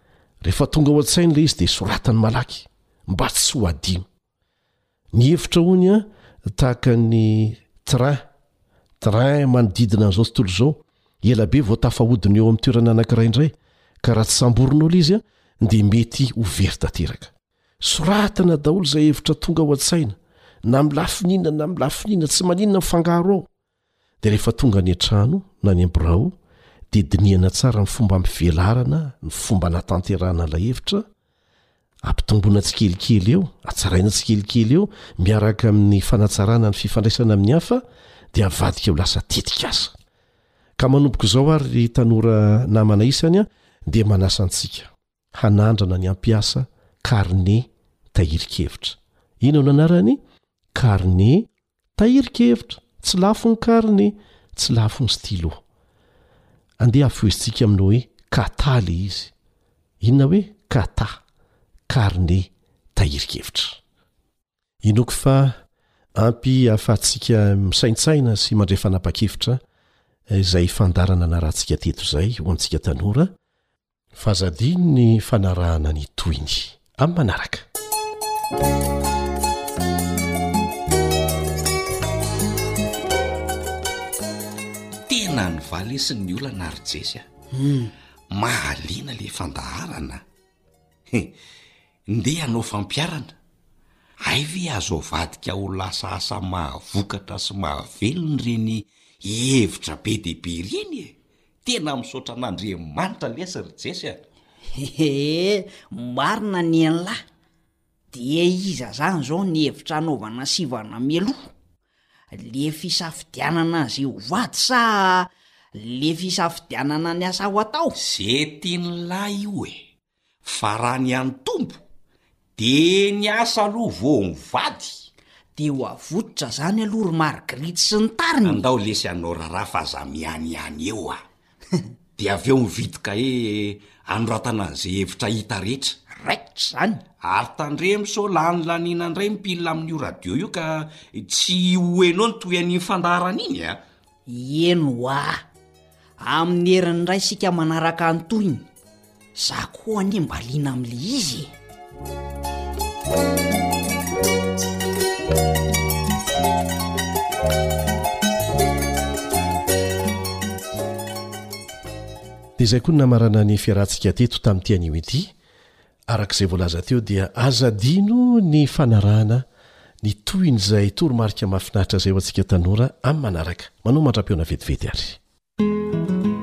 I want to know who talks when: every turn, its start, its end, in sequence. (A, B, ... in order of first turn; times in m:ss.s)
0:00.4-0:04.0 A
0:05.1-0:08.3 A
0:09.0-0:23.5 A
0:24.2-0:26.3 A
0:26.9-0:31.1 A
0:32.0-0:39.9 A
0:40.8-0:50.2 A
0:50.7-0:55.6 A
0:56.8-0:59.3 A
1:00.0-1:01.2 A
1:01.9-1:03.8 A
1:04.8-1:05.6 A
1:06.1-1:09.6 A
1:10.3-1:13.3 A
1:14.1-1:17.7 A
1:25.1-1:27.3 B
1:28.3-1:30.2 B
1:32.1-1:33.3 B
1:34.2-1:44.2 B
1:44.7-1:47.2 C
1:48.1-1:51.5 C
1:52.3-1:57.9 C
1:58.0-1:59.8 B
2:00.4-2:01.8 B
2:02.6-2:05.1 B
2:05.5-2:08.6 C
2:08.4-2:11.2 B
2:12.2-2:16.0 B
2:16.1-2:17.0 C
2:17.2-2:23.8 B
2:24.3-2:25.4 C
2:26.2-2:28.7 C
2:29.3-2:31.5 C
2:42.6-2:45.3 A
2:46.1-2:49.4 A
2:50.0-2:55.2 A